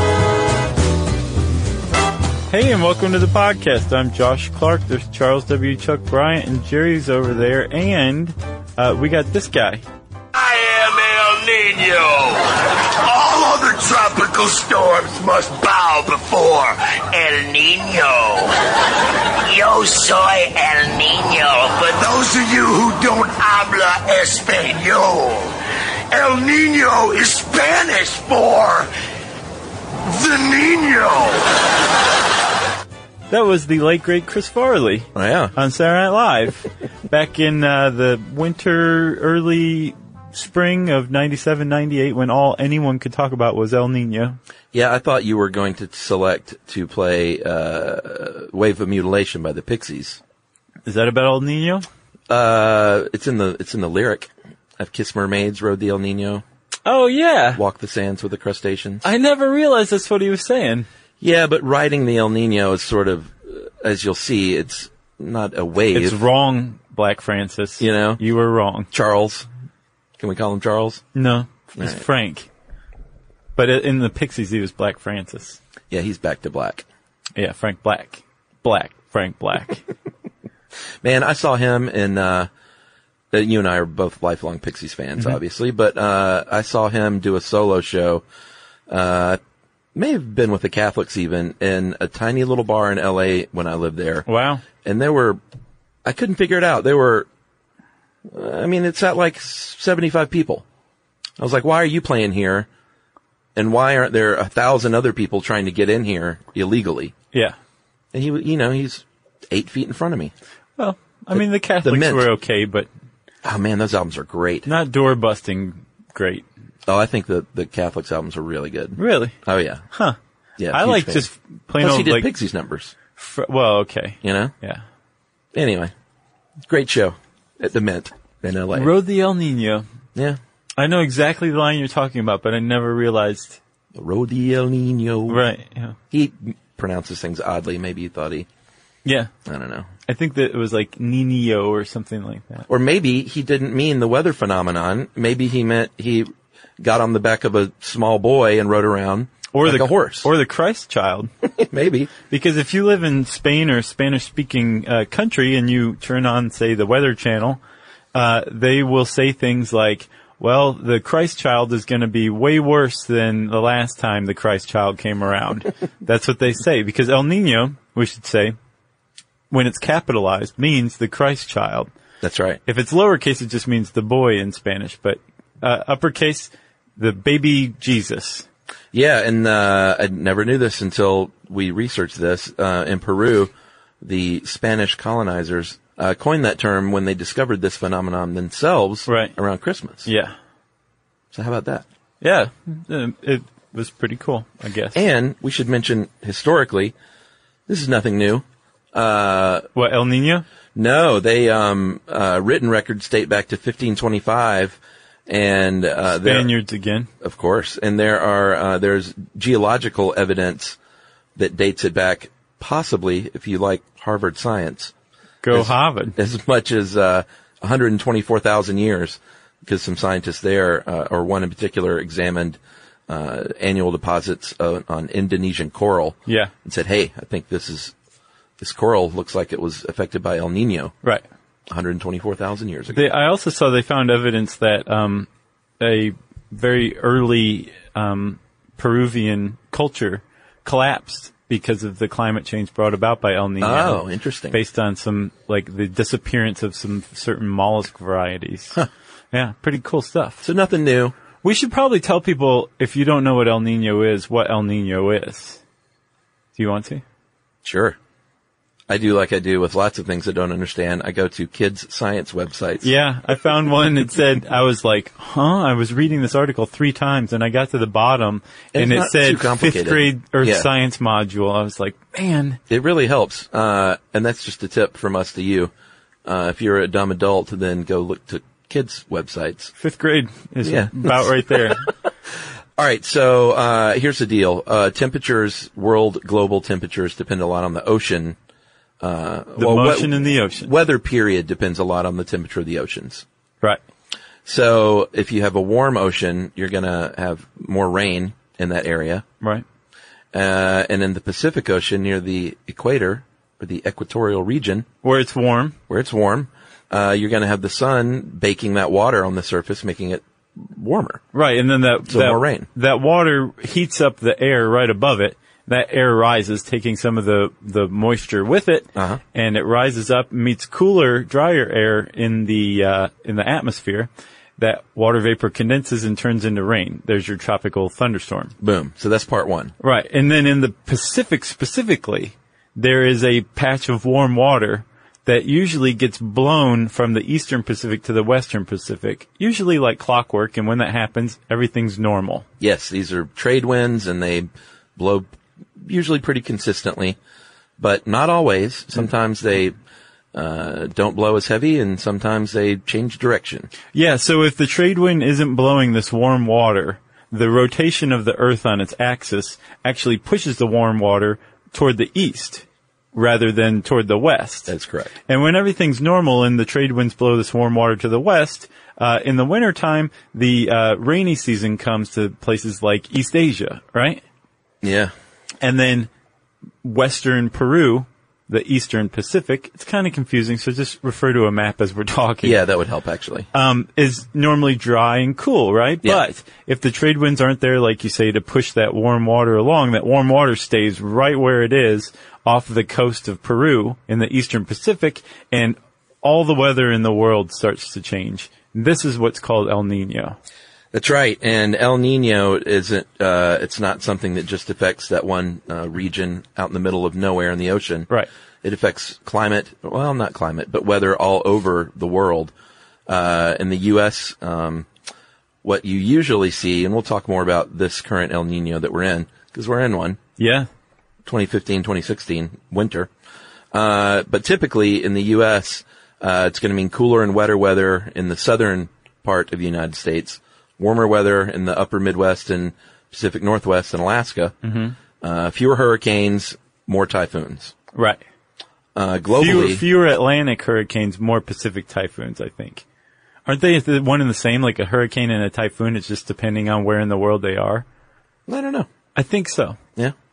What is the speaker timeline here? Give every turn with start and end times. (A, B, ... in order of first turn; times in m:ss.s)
0:02.5-0:09.8 A
0:10.3-0:18.6 B
0:19.2-0:25.6 B
0:26.1-0:28.9 B
0:30.0-0:31.4 B
0:33.3-0:44.4 A
0:35.1-0:35.5 C
0:44.7-0:50.2 C
0:50.8-0:51.8 A
0:52.3-0:56.4 C
0:56.8-0:57.6 A
0:57.6-0:59.0 C
0:59.0-1:00.9 A
1:01.2-1:06.2 C
1:05.9-1:08.9 A
1:07.8-1:08.2 C
1:08.9-1:09.5 C
1:10.2-1:11.0 C
1:11.1-1:12.5 A
1:11.8-1:12.0 C
1:13.6-1:15.6 A
1:15.9-1:16.8 C
1:17.4-1:19.8 A
1:21.0-1:22.5 C
1:23.3-1:28.2 C
1:28.9-1:29.4 C
1:29.9-1:34.2 C
1:34.2-1:34.6 A
1:34.8-1:35.4 C
1:36.0-1:37.3 C
1:38.3-1:40.6 C
1:41.4-1:42.7 C
1:43.6-1:47.1 C
1:48.1-1:50.3 C
1:50.8-1:52.9 A
1:51.4-1:52.3 C
1:53.4-1:54.7 C
1:54.6-1:56.4 A
1:56.8-1:59.8 C
1:59.0-1:59.3 A
1:59.9-2:00.2 A
2:00.6-2:01.2 C
2:00.7-2:02.3 A
2:01.8-2:02.9 C
2:03.2-2:04.8 A
2:04.2-2:04.5 C
2:05.5-2:05.9 C
2:06.7-2:08.9 C
2:08.7-2:09.8 A
2:10.8-2:13.6 A
2:13.9-2:15.4 C
2:15.3-2:16.0 A
2:16.1-2:18.5 C
2:19.0-2:19.3 A
2:19.4-2:19.9 C
2:20.1-2:22.7 A
2:22.7-2:30.3 C
2:29.5-2:31.3 A
2:31.4-2:32.1 C
2:32.3-2:37.6 A
2:38.1-2:48.6 A
2:49.5-2:51.9 A
2:52.2-2:52.6 C
2:52.6-2:58.4 A
2:58.9-3:10.1 C
3:09.1-3:09.3 A
3:10.0-3:10.3 A
3:11.3-3:11.8 C
3:12.2-3:15.0 A
3:14.9-3:16.9 C
3:17.7-3:19.7 C
3:19.7-3:20.4 A
3:20.7-3:26.5 C
3:26.1-3:27.1 A
3:27.2-3:30.8 C
3:31.4-3:34.9 C
3:35.4-3:36.2 A
3:35.5-3:47.9 C
3:46.3-3:46.5 A
3:48.6-3:50.9 C
3:51.7-3:53.0 C
3:52.9-3:55.3 A
3:55.8-4:10.4 A
4:03.6-4:04.6 C
4:10.4-4:11.1 C
4:11.4-4:15.6 A
4:16.6-4:17.0 A
4:17.6-4:18.0 C
4:18.9-4:22.9 C
4:22.8-4:32.6 A
4:28.7-4:30.7 C
4:32.7-4:35.7 C
4:36.2-4:39.7 C
4:39.8-4:41.9 A
4:40.6-4:41.8 C
4:42.8-4:48.4 C
4:49.0-4:53.2 C
4:49.6-4:50.7 A
4:54.4-4:59.2 C
5:00.3-5:04.8 C
5:05.0-5:05.8 A
5:05.9-5:11.2 C
5:11.3-5:28.5 A
5:12.1-5:12.7 C
5:19.0-5:19.2 C
5:28.6-5:29.7 C
5:29.8-5:42.4 A
5:42.6-5:47.2 C
5:47.8-5:49.8 C
5:50.3-5:53.7 C
5:53.9-6:04.7 A
6:04.7-6:05.1 C
6:05.3-6:14.2 A
6:14.8-6:15.1 C
6:15.6-6:16.1 A
6:16.8-6:22.6 A
6:22.4-6:23.5 C
6:23.5-6:40.4 A
6:40.9-6:48.1 C
6:48.6-6:52.5 C
6:53.1-6:54.9 C
6:55.6-7:00.2 C
7:00.4-7:00.7 A
7:01.2-7:03.1 C
7:03.7-7:14.6 C
7:14.6-7:14.9 A
7:15.2-7:17.7 C
7:17.9-7:18.2 A
7:18.9-7:19.8 C
7:19.4-7:22.8 A
7:23.4-7:27.8 A
7:28.5-7:28.9 C
7:29.1-7:29.8 A